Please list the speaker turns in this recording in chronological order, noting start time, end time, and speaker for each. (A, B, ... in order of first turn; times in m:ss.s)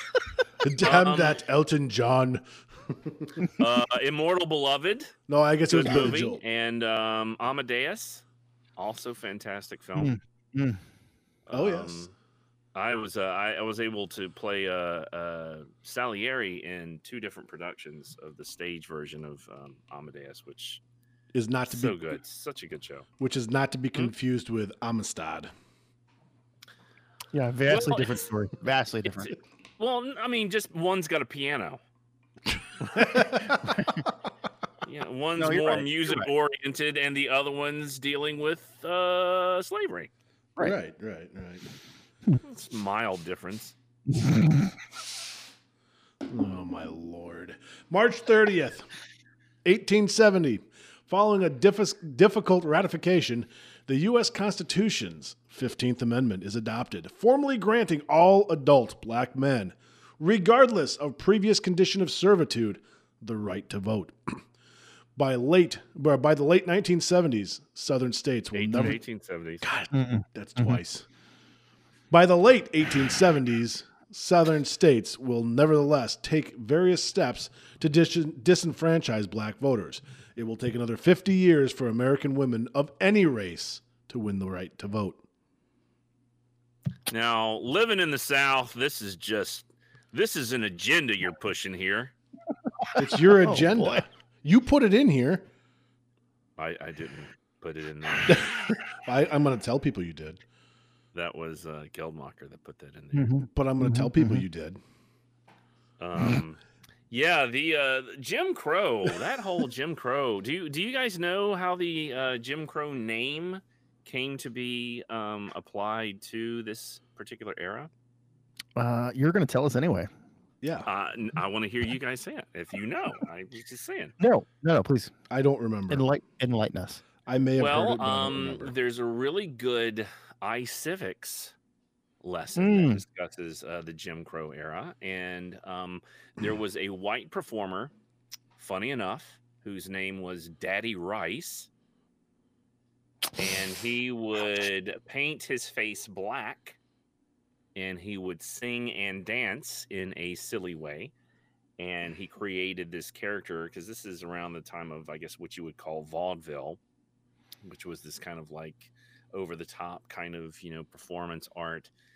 0:00.6-0:03.5 A
0:00.8-0:01.4 B
0:03.6-0:05.1 B
0:05.3-0:06.4 A
0:05.7-0:08.2 B
0:08.8-0:10.1 B
0:10.0-0:10.8 C
0:11.5-0:12.1 B
0:11.5-0:12.0 A
0:12.7-0:20.8 B
0:21.3-0:22.2 A
0:21.7-0:23.1 B
0:23.2-0:25.5 A
0:27.3-0:29.4 C
0:27.7-0:28.2 B
0:29.8-0:31.8 B
0:32.8-0:33.7 A
0:33.6-0:34.0 C
0:34.8-0:40.1 B
0:35.4-0:36.3 C
0:40.6-0:41.7 A
0:42.4-0:43.7 B
0:44.2-0:44.7 C
0:46.3-0:48.9 A
0:49.6-1:04.4 A
1:05.2-1:09.0 A
1:08.5-1:09.6 B
1:09.6-1:11.0 A
1:09.9-1:10.8 C
1:12.1-1:25.2 A
1:27.1-1:32.1 B
1:33.0-1:35.5 A
1:33.3-1:34.0 C
1:36.6-1:38.7 B
1:38.2-1:40.4 A
1:41.1-1:43.4 B
1:43.1-1:44.4 C
1:43.5-1:44.8 A
1:46.0-1:46.6 B
1:47.1-1:57.9 B
1:58.8-2:00.1 C
2:00.6-2:00.9 A
2:00.8-2:04.1 B
2:04.2-2:05.1 C
2:05.3-2:06.0 A
2:05.9-2:07.0 C
2:07.2-2:08.7 A
2:07.6-2:11.5 B
2:12.2-2:17.9 B
2:12.6-2:13.0 C
2:18.6-2:21.7 B
2:23.3-2:26.8 B
2:27.7-2:31.1 B
2:31.8-2:36.8 B
2:37.6-2:41.9 B